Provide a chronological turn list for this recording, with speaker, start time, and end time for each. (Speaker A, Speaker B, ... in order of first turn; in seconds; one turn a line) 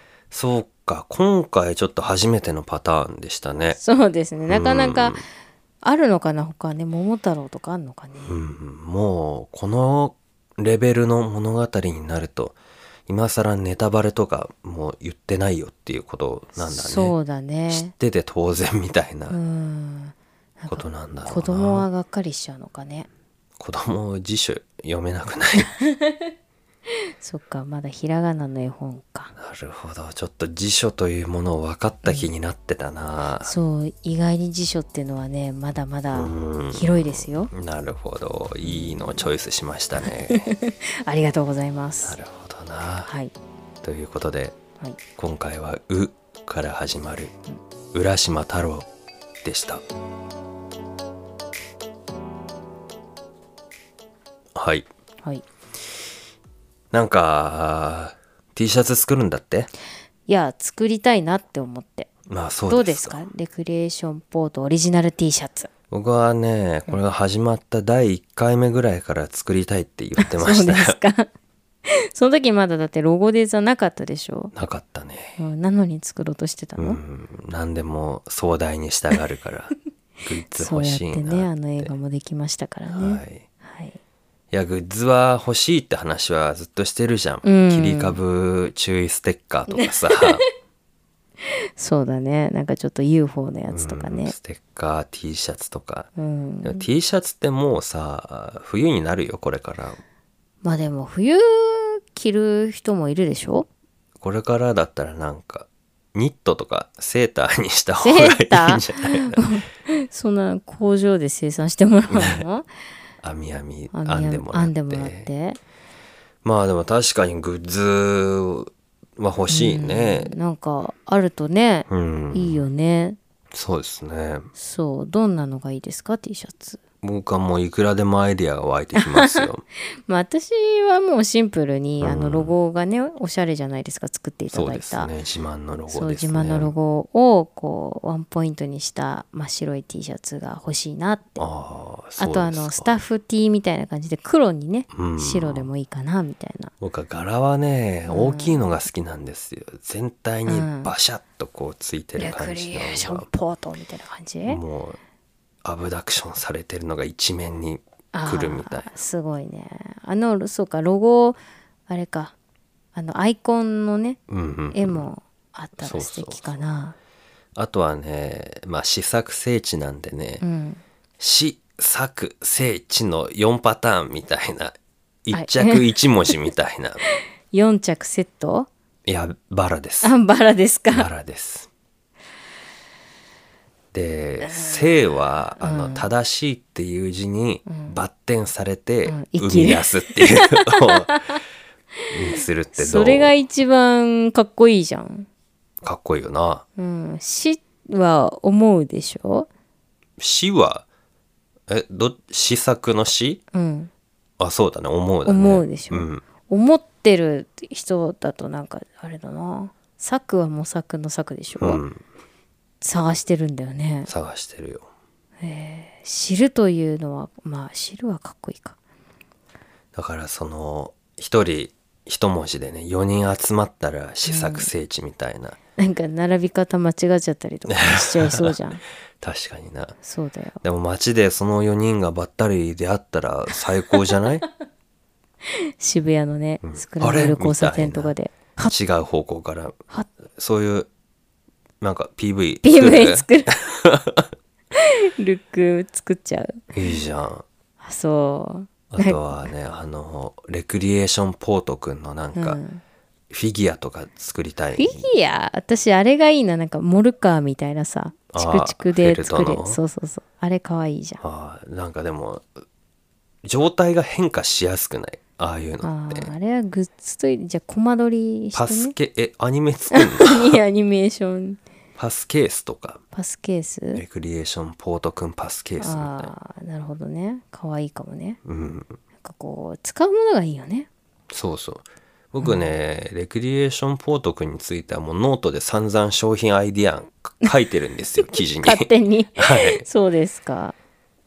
Speaker A: 0.3-3.8
Speaker B: 3.8-5.2
Speaker A: 4.5-5.2
Speaker B: 5.8-8.4
Speaker A: 8.3-17.1
Speaker B: 16.6-17.9
Speaker A: 17.7-19.4
Speaker B: 19.3-23.1
Speaker A: 20.7-21.9
Speaker A: 23.6-25.7
Speaker B: 25.6-26.3
Speaker B: 27.2-29.3
Speaker A: 29.4-33.5
Speaker B: 33.4-37.5
Speaker A: 36.1-40.5
Speaker B: 38.6-39.3
Speaker B: 40.0-42.2
Speaker A: 42.0-43.1
Speaker B: 43.1-43.3
Speaker A: 43.8-44.6
Speaker A: 45.2-47.3
Speaker A: 47.9-48.9
Speaker A: 49.4-49.8
Speaker A: 54.5-54.9
Speaker A: 56.9-59.7
Speaker B: 60.3-62.1
Speaker A: 62.3-63.2
Speaker B: 62.7-65.7
Speaker A: 65.9-71.0
Speaker B: 70.2-71.3
Speaker B: 71.9-74.5
Speaker A: 74.5-75.4
Speaker B: 75.4-77.0
Speaker A: 76.8-81.9
Speaker B: 80.5-84.0
Speaker A: 82.9-83.5
Speaker A: 84.5-90.4
Speaker B: 87.4-88.2
Speaker B: 89.7-90.4
Speaker B: 91.8-94.3
Speaker A: 93.7-96.1
Speaker B: 96.2-96.8
Speaker A: 96.6-100.0
Speaker B: 100.6-103.7
Speaker A: 104.2-109.5
Speaker B: 108.0-112.7
Speaker A: 112.1-112.4
Speaker A: 113.2-115.3
Speaker B: 113.9-115.6
Speaker A: 116.4-120.3
Speaker B: 119.5-123.2
Speaker A: 121.9-122.6
Speaker A: 123.5-124.5
Speaker B: 124.6-126.8
Speaker A: 127.0-129.6
Speaker B: 129.0-129.5
Speaker B: 130.1-135.1
Speaker A: 132.0-132.5
Speaker A: 134.5-136.7
Speaker B: 135.9-141.4
Speaker A: 141.4-143.0
Speaker B: 142.2-146.7
Speaker A: 144.9-145.7
Speaker A: 146.8-153.3
Speaker B: 148.1-148.8
Speaker B: 150.5-150.9
Speaker B: 152.2-154.6
Speaker A: 154.5-155.0
Speaker A: 155.6-158.9
Speaker B: 158.1-162.3
Speaker B: 162.9-164.2
Speaker A: 164.3-165.1
Speaker B: 164.7-167.0
Speaker A: 165.8-166.6
Speaker A: 167.6-170.4
Speaker B: 170.4-170.8
Speaker A: 171.2-177.0
Speaker B: 175.3-176.4
Speaker B: 177.1-178.7
Speaker A: 179.1-180.2
Speaker B: 180.0-181.1
Speaker A: 180.9-181.7
Speaker A: 183.9-191.1
Speaker B: 184.4-185.0
Speaker B: 185.6-186.1
Speaker B: 187.7-188.0
Speaker B: 189.1-191.4
Speaker B: 192.0-195.3
Speaker A: 192.1-193.3
Speaker A: 195.8-196.7
Speaker B: 196.8-199.5
Speaker A: 200.2-200.9
Speaker A: 201.7-203.4
Speaker B: 203.5-203.9
Speaker A: 204.4-206.2
Speaker B: 205.2-211.8
Speaker A: 211.6-212.0
Speaker B: 212.8-214.1
Speaker A: 214.1-214.9
Speaker B: 215.4-218.8
Speaker A: 219.9-225.6
Speaker B: 224.3-224.7
Speaker B: 225.8-228.8
Speaker A: 227.7-228.6
Speaker A: 229.2-230.0
Speaker B: 230.0-230.6
Speaker A: 230.6-234.4
Speaker B: 235.5-238.8
Speaker A: 236.6-238.2
Speaker A: 238.7-239.8
Speaker A: 240.4-240.9
Speaker A: 241.8-244.3
Speaker B: 242.6-243.6
Speaker B: 244.7-246.7
Speaker A: 246.7-247.4
Speaker B: 247.8-249.4
Speaker A: 248.9-252.6
Speaker B: 252.3-252.8
Speaker A: 253.3-255.1
Speaker B: 254.8-261.2
Speaker A: 258.3-259.8
Speaker A: 261.2-262.5
Speaker A: 263.4-266.3
Speaker B: 265.8-268.9
Speaker A: 268.5-270.6
Speaker B: 269.9-271.6
Speaker A: 272.0-273.0
Speaker B: 273.1-274.0
Speaker A: 273.9-276.3
Speaker B: 275.8-278.4
Speaker A: 278.4-279.0
Speaker B: 279.2-280.9
Speaker A: 281.3-289.8
Speaker B: 282.4-282.7
Speaker B: 288.6-290.8